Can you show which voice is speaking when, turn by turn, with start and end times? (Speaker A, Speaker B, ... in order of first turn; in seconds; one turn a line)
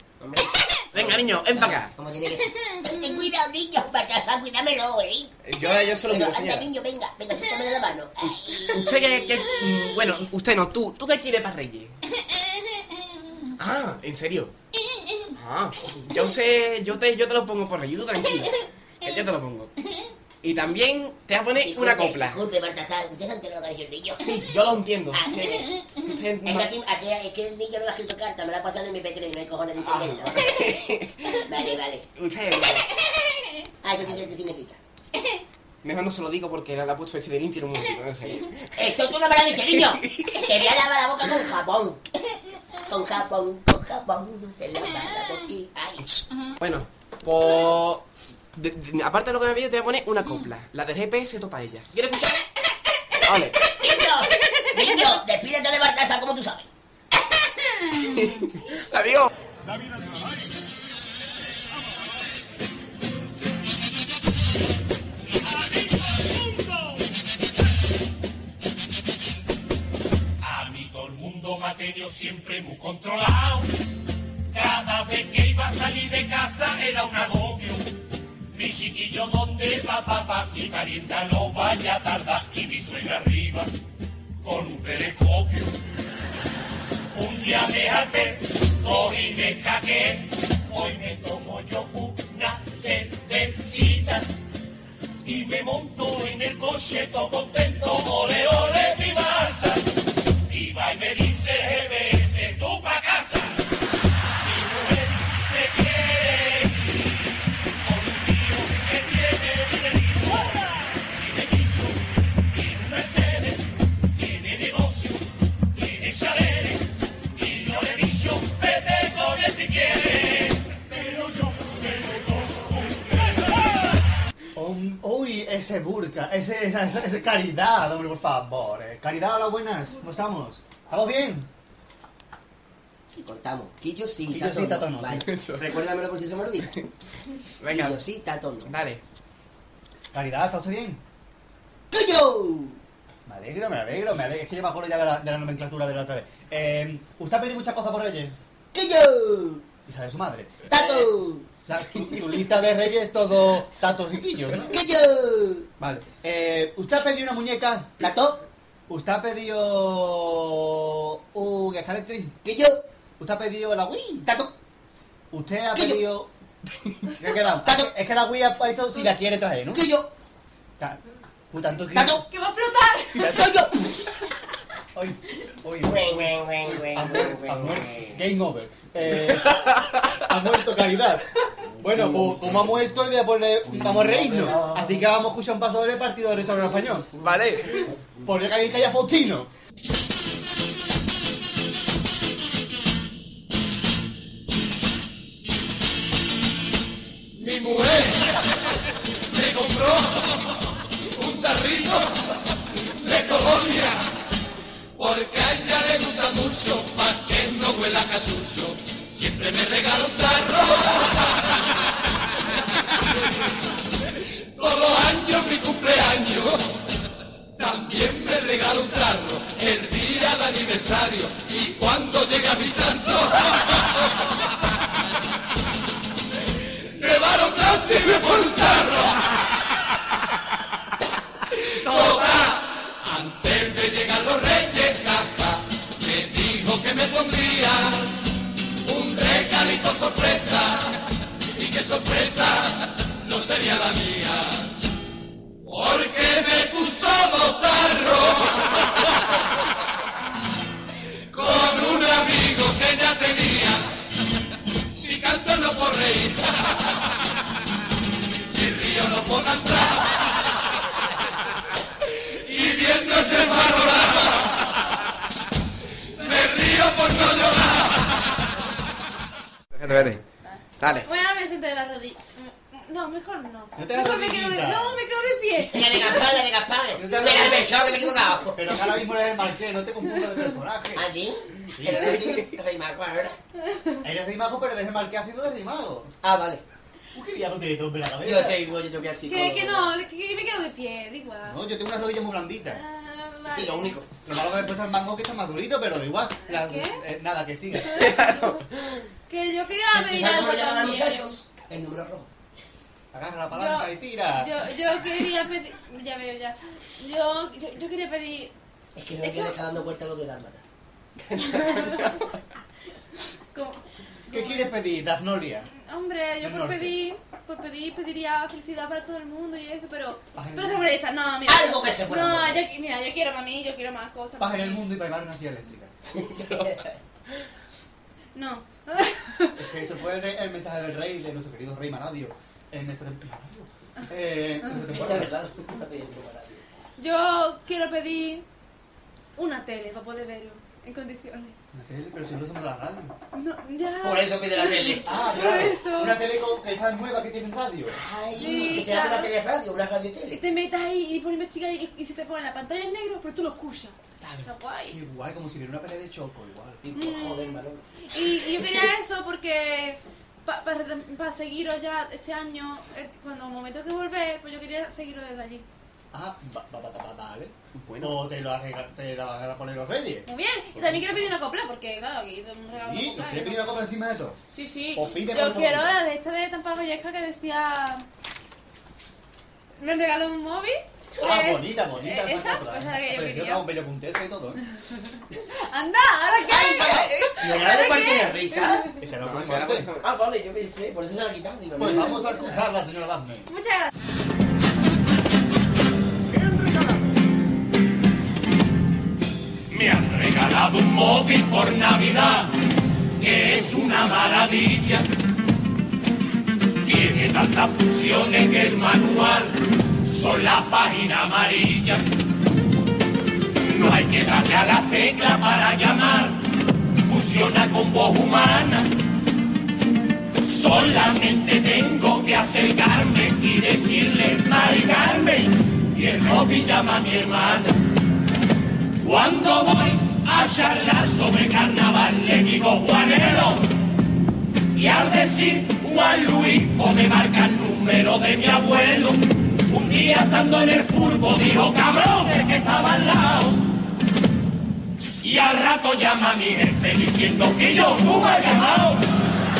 Speaker A: 0.2-5.3
Speaker B: 0.9-1.9
Speaker B: 5.4-6.7
Speaker A: 5.8-9.1
Speaker B: 8.7-12.0
Speaker B: 13.6-14.5
Speaker B: 15.3-19.7
Speaker B: 20.4-22.4
Speaker A: 21.6-25.8
Speaker B: 24.2-26.7
Speaker A: 26.4-30.6
Speaker B: 29.8-31.4
Speaker A: 31.4-32.1
Speaker B: 32.2-33.2
Speaker A: 33.8-34.8
Speaker B: 35.8-38.7
Speaker A: 38.7-46.0
Speaker B: 39.7-40.5
Speaker B: 46.0-52.4
Speaker B: 53.2-53.7
Speaker A: 53.6-56.7
Speaker B: 57.7-59.3
Speaker C: 59.6-60.5
Speaker D: 65.5-66.9
Speaker D: 70.4-73.7
Speaker D: 74.5-78.0
Speaker D: 78.5-83.7
Speaker D: 84.4-85.7
Speaker D: 87.1-94.3
Speaker D: 95.2-103.6
Speaker D: 104.4-107.1
Speaker D: 107.8-123.7
Speaker C: 124.5-131.5
Speaker A: 133.1-136.7
Speaker C: 134.3-135.3
Speaker B: 135.2-135.8
Speaker B: 137.6-138.0
Speaker A: 137.7-138.8
Speaker B: 138.6-139.0
Speaker C: 140.1-141.0
Speaker A: 141.9-142.8
Speaker C: 143.2-148.3
Speaker A: 148.7-149.6
Speaker C: 149.8-151.1
Speaker A: 150.7-151.5
Speaker C: 151.7-154.8
Speaker A: 154.5-155.7
Speaker C: 155.8-158.1
Speaker A: 158.0-158.4
Speaker C: 158.9-162.4
Speaker A: 162.4-162.8
Speaker C: 163.2-164.3
Speaker A: 164.2-164.5
Speaker C: 165.3-166.3
Speaker A: 165.7-166.0
Speaker C: 167.1-169.9
Speaker A: 167.6-167.9
Speaker A: 169.7-170.1
Speaker C: 171.5-172.2
Speaker A: 171.9-172.2
Speaker E: 172.2-173.3
Speaker C: 173.2-173.7
Speaker A: 173.2-173.9
Speaker C: 174.9-187.1
Speaker A: 175.8-178.2
Speaker B: 179.7-180.0
Speaker A: 183.7-185.0
Speaker B: 187.2-187.9
Speaker C: 188.2-189.5
Speaker D: 197.4-198.4
Speaker D: 199.3-200.4
Speaker D: 201.0-202.3
Speaker D: 202.9-204.1
Speaker D: 205.0-211.5
Speaker D: 214.6-216.8
Speaker D: 217.6-223.7
Speaker D: 226.8-229.3
Speaker D: 231.6-238.2
Speaker D: 238.8-244.7
Speaker D: 245.6-248.9
Speaker D: 251.3-253.8
Speaker D: 254.9-256.7
Speaker D: 258.5-260.2
Speaker D: 262.3-264.4
Speaker D: 266.2-267.9
Speaker B: 269.7-270.2
Speaker C: 269.9-270.2
Speaker E: 270.5-276.2
Speaker B: 270.8-271.1
Speaker C: 273.7-275.0
Speaker A: 275.7-278.8
Speaker C: 276.9-277.8
Speaker C: 278.5-281.1
Speaker A: 280.9-283.4
Speaker C: 281.7-282.4
Speaker C: 284.0-286.1
Speaker A: 286.2-286.6
Speaker C: 287.1-288.6
Speaker A: 288.2-289.9
Speaker E: 289.3-291.6
Speaker C: 291.4-292.8
Speaker E: 292.6-293.9
Speaker A: 293.5-294.1
Speaker C: 294.2-298.1
Speaker E: 296.4-297.0
Speaker E: 297.9-298.6
Speaker B: 298.1-298.6
Speaker E: 299.3-301.4
Speaker A: 299.9-302.3
Speaker C: 303.1-304.6
Speaker E: 303.5-308.5
Speaker A: 308.9-310.6
Speaker E: 309.2-309.6
Speaker B: 311.2-312.2
Speaker E: 313.5-314.8
Speaker C: 314.3-315.7
Speaker E: 315.7-325.0
Speaker C: 316.4-316.9
Speaker C: 320.3-320.9
Speaker A: 321.4-322.6
Speaker C: 324.4-325.9
Speaker A: 326.1-327.0
Speaker B: 326.4-326.7
Speaker E: 328.3-329.6
Speaker C: 329.6-335.3
Speaker A: 334.8-336.6
Speaker E: 337.0-338.4
Speaker E: 339.4-341.6
Speaker C: 341.7-343.1
Speaker E: 343.3-346.3
Speaker A: 344.0-345.2
Speaker C: 345.0-348.0
Speaker A: 347.9-350.4
Speaker E: 348.3-349.3
Speaker E: 350.3-355.0
Speaker C: 354.2-356.8
Speaker A: 356.8-357.8
Speaker E: 356.9-365.6
Speaker C: 366.1-371.3
Speaker B: 367.7-368.2
Speaker E: 370.2-373.7
Speaker C: 372.7-374.4
Speaker E: 374.5-378.0
Speaker C: 374.9-376.0
Speaker E: 379.8-383.7
Speaker C: 381.2-384.6
Speaker E: 385.3-389.0
Speaker A: 386.5-388.9
Speaker C: 389.0-389.9
Speaker B: 389.2-390.1
Speaker A: 390.0-392.5
Speaker C: 391.8-393.5
Speaker E: 393.5-393.9
Speaker D: 399.7-402.6
Speaker D: 403.2-405.1
Speaker D: 406.8-412.1
Speaker D: 413.7-416.4
Speaker D: 417.0-418.9
Speaker D: 420.4-427.9
Speaker D: 429.0-433.8
Speaker D: 434.7-443.7
Speaker D: 445.2-449.1